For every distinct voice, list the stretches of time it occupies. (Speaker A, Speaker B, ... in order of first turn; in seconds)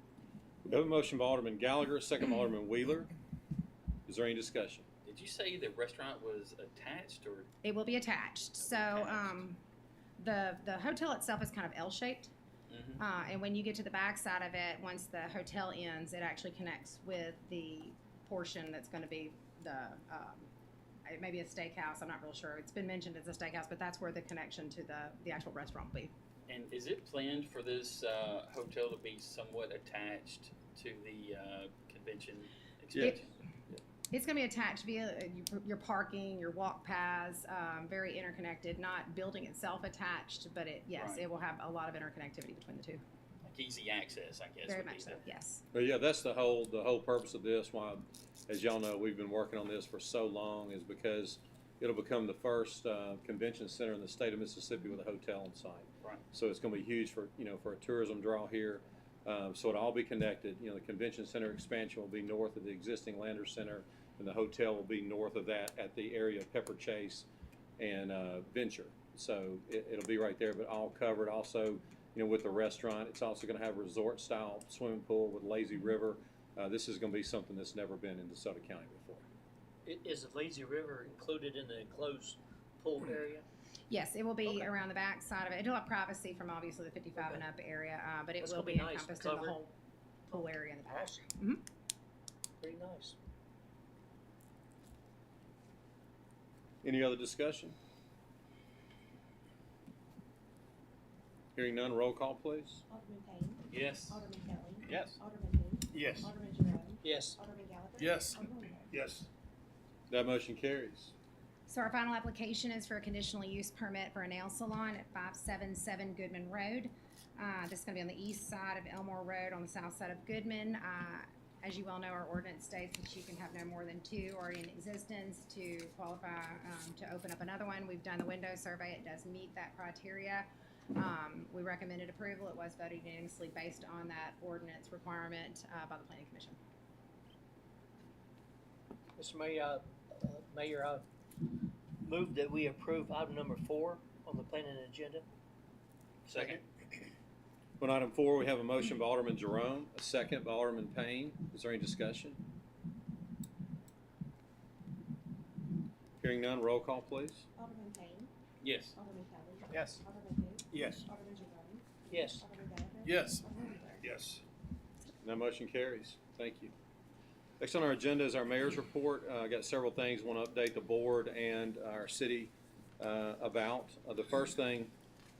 Speaker A: 0.6-3.1, 4.0-4.8, 45.7-67.3, 67.8-79.2, 96.8-97.8, 101.5-102.8, 110.1-111.1, 147.8-152.4, 156.2-157.4, 165.2-166.7, 167.6-174.9
Speaker B: 5.0-7.5, 8.7-9.4, 12.7-13.0, 26.5-33.8, 40.9-41.2, 43.5-45.2, 103.7-104.2, 146.3-146.6, 158.6-159.0
Speaker C: 7.6-9.6, 10.2-12.3, 13.0-20.5, 21.1-26.1, 34.1-43.0, 44.7-45.6, 83.9-89.7, 90.3-91.6, 111.7-136.6
Speaker D: 79.8-83.4, 84.4-84.7, 88.4-89.6, 90.3-91.2, 92.6-93.1, 107.0-107.4, 139.2-141.0, 142.0-145.2, 146.3-146.6, 160.7-161.0, 162.1-162.4
Speaker E: 102.9-108.9, 157.6-158.3, 159.0-164.0
Speaker F: 105.9-106.3, 108.0-109.3, 159.7-160.0, 160.8-161.0, 163.0-163.4, 164.0-164.4